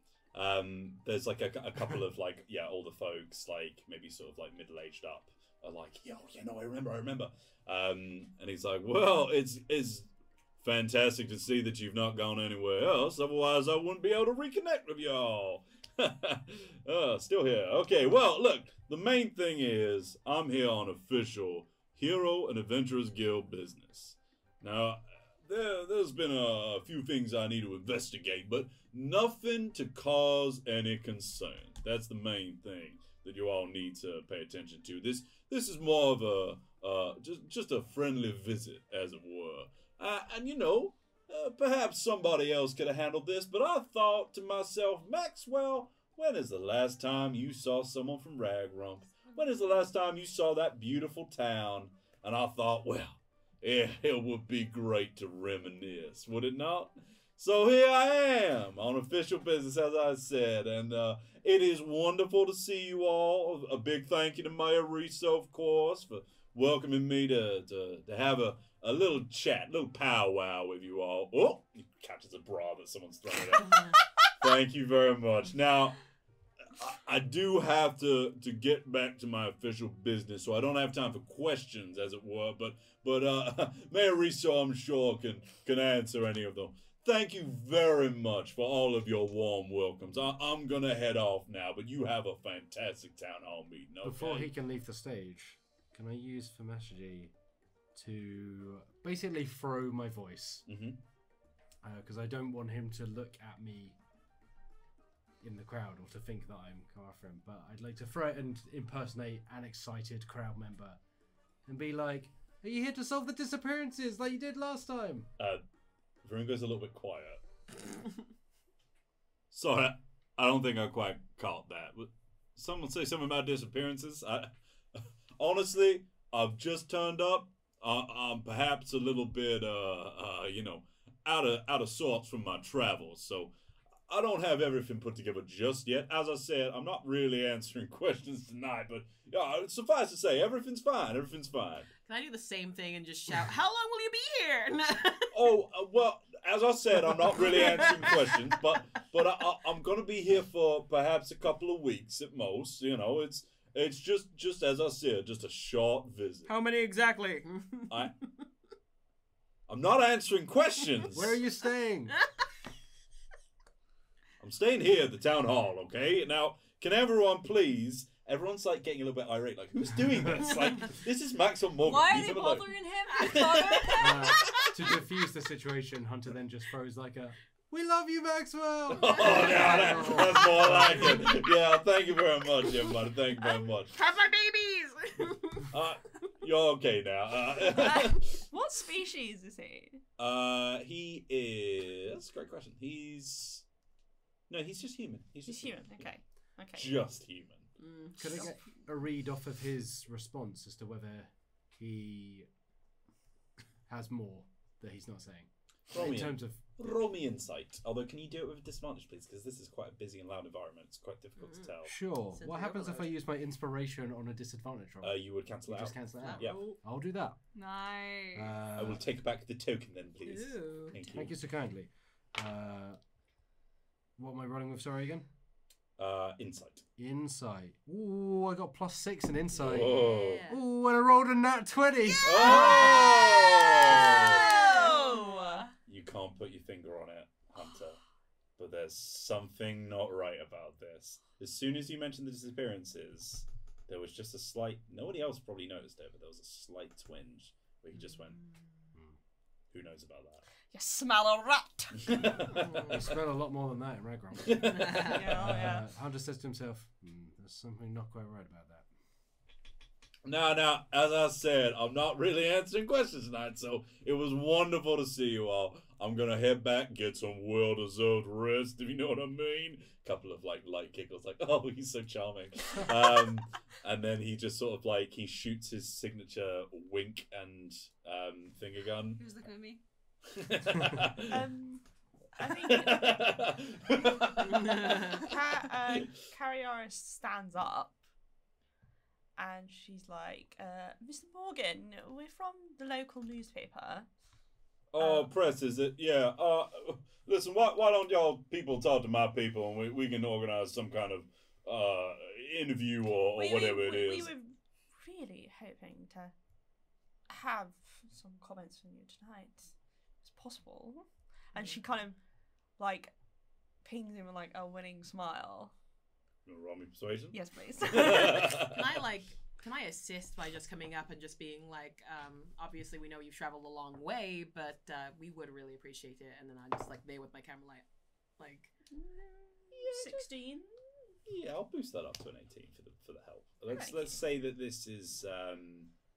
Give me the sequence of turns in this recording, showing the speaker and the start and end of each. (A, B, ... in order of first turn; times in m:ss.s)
0:00.3-1:16.0 A
1:16.8-1:34.5 A
1:34.0-1:37.3 B
1:37.9-1:40.6 B
1:40.7-1:41.0 A
1:41.8-1:44.0 B
1:45.4-1:51.0 B
1:51.7-1:55.3 B
1:56.2-1:57.4 A
1:59.5-2:04.5 A
2:05.4-2:13.5 A
2:14.1-2:21.9 A
2:22.0-2:25.4 C
2:25.3-2:36.5 A
2:27.1-2:28.7 C
2:36.5-2:38.3 C
2:39.7-2:41.4 A
2:41.1-2:42.2 B
2:44.4-2:54.8 A
2:51.8-2:54.6 D
2:54.0-3:01.4 B
2:58.9-3:04.0 A
2:59.2-3:00.3 C
3:03.6-3:05.7 C
3:05.7-3:08.4 A
3:07.7-3:10.0 E
3:10.2-3:13.6 A
3:14.5-3:16.0 A
3:15.5-3:17.0 E
3:16.8-3:17.7 A
3:17.8-3:18.5 C
3:18.2-3:22.5 B
3:23.9-3:26.7 B
3:25.9-3:31.9 A
3:31.4-3:31.7 C
3:31.8-3:37.4 B
3:32.3-3:33.1 C
3:35.0-3:36.7 A
3:36.2-3:36.8 C
3:37.6-3:38.6 D
3:38.4-3:39.0 B
3:38.8-3:41.3 A
3:40.2-3:41.0 C
3:41.1-3:43.0 B
3:44.2-3:45.3 B
3:46.0-3:46.8 A
3:47.0-3:53.2 B
3:49.6-3:50.5 A
3:49.6-3:50.6 C
3:52.2-3:54.6 A
3:52.4-3:55.7 E
3:52.8-3:55.6 C
3:54.7-3:54.9 D
3:55.9-3:58.0 A
3:58.6-4:08.4 A
4:09.7-4:10.4 A
4:10.7-4:12.4 E
4:12.0-4:13.0 A
4:12.5-4:12.9 C
4:12.9-4:18.9 B
4:14.4-4:15.6 A
4:14.8-4:15.2 C
4:15.0-4:15.8 E
4:20.2-4:39.2 A
4:39.2-4:39.8 D
4:40.3-4:41.5 A
4:41.3-4:41.8 E
4:42.4-4:43.2 E
4:42.4-4:45.2 A
4:44.5-4:45.3 C
4:45.2-4:48.0 E
4:49.4-4:54.1 E
4:54.9-5:04.3 A
4:55.0-4:55.3 E
5:03.4-5:06.3 E
5:07.3-5:09.7 E
5:10.2-5:12.2 E
5:12.8-5:13.1 E
5:13.8-5:15.7 E
5:16.5-5:19.1 A
5:17.3-5:18.6 E
5:18.7-5:27.8 C
5:28.4-5:28.7 C
5:28.9-5:30.7 E
5:29.9-5:30.2 C
5:31.3-5:35.9 A
5:33.7-5:34.2 E